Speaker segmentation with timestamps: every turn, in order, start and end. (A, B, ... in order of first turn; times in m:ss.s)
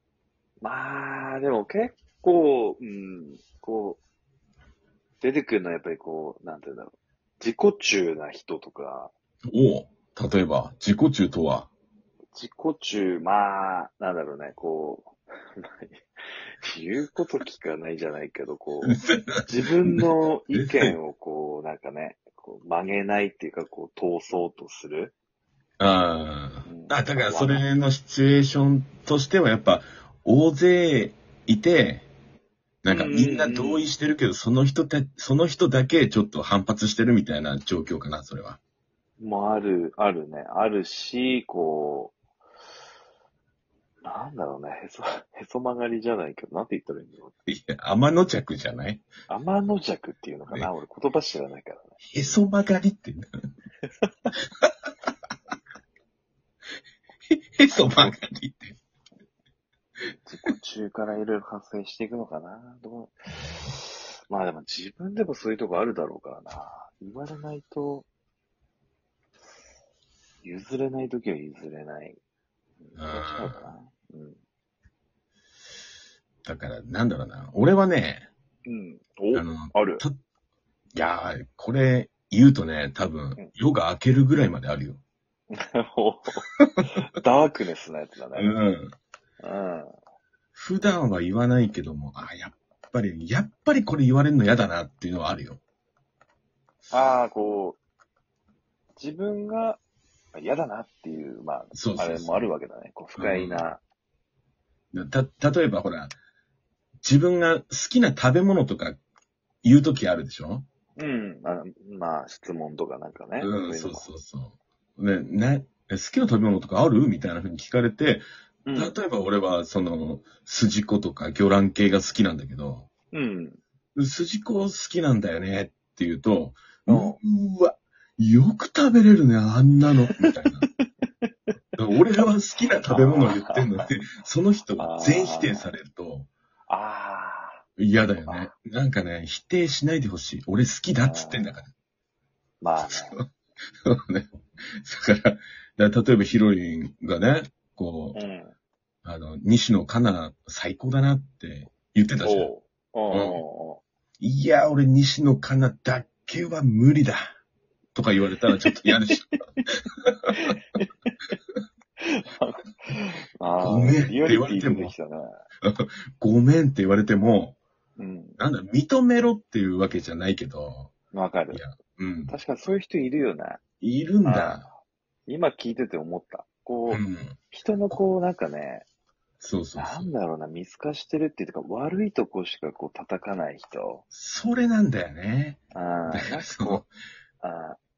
0:00.6-0:04.0 A
0:05.2-0:09.1 A
0:09.5-0:11.7 B
0:12.3-0:16.0 A
0:16.6-0:25.1 A
0:18.8-0:21.0 B
0:25.8-0:32.1 B
0:26.7-0:27.7 A
0:32.8-0:38.6 B
0:32.9-0:33.9 A
0:39.2-0:42.2 A
0:44.0-0:47.4 A
0:47.5-0:49.1 B
0:49.3-0:52.1 A
0:52.1-0:53.3 B
0:53.8-0:54.3 A
0:57.3-0:58.8 B
0:57.7-0:58.2 A
1:00.3-1:08.1 A
1:10.4-1:12.2 A
1:12.8-1:14.4 A
1:13.0-1:13.7 B
1:16.4-1:18.3 B
1:18.7-1:20.0 A
1:19.3-1:20.2 B
1:21.0-1:25.0 B
1:25.5-1:28.6 A
1:26.6-1:26.9 B
1:28.4-1:29.0 B
1:29.4-1:30.0 A
1:30.6-1:35.6 B
1:36.9-1:37.8 A
1:39.0-1:39.8 A
1:40.3-1:43.8 A
1:41.7-1:42.5 B
1:43.2-1:43.7 B
1:44.9-1:46.2 B
1:47.0-1:49.0 B
1:49.6-1:50.7 B
1:51.0-1:54.1 A
1:53.4-2:02.9 B
1:58.7-1:59.0 A
2:03.1-2:03.6 A
2:04.0-2:10.6 B
2:06.9-2:07.2 A
2:11.8-2:16.3 B
2:12.8-2:13.9 A
2:14.8-2:15.7 A
2:16.7-2:17.6 A
2:17.8-2:21.7 B
2:18.3-2:18.5 A
2:21.0-2:21.6 A
2:22.6-2:23.2 A
2:23.9-2:28.2 B
2:28.1-2:28.5 A
2:29.0-2:32.5 B
2:32.2-2:33.8 A
2:33.1-2:33.4 B
2:34.2-2:37.4 B
2:38.0-2:39.3 B
2:38.5-2:39.4 A
2:40.3-2:41.1 A
2:42.0-2:45.4 A
2:43.6-2:44.9 B
2:45.6-2:47.6 B
2:48.0-2:48.4 A
2:48.4-2:50.9 B
2:51.1-2:51.6 A
2:51.5-2:52.4 B
2:52.3-2:53.6 A
2:53.8-2:54.7 B
2:54.2-2:54.7 A
2:55.3-2:58.9 A
2:56.9-2:57.4 B
2:59.4-3:00.1 B
2:59.8-3:04.0 A
3:04.1-3:05.6 B
3:05.7-3:06.8 A
3:06.1-3:06.9 B
3:07.4-3:07.8 A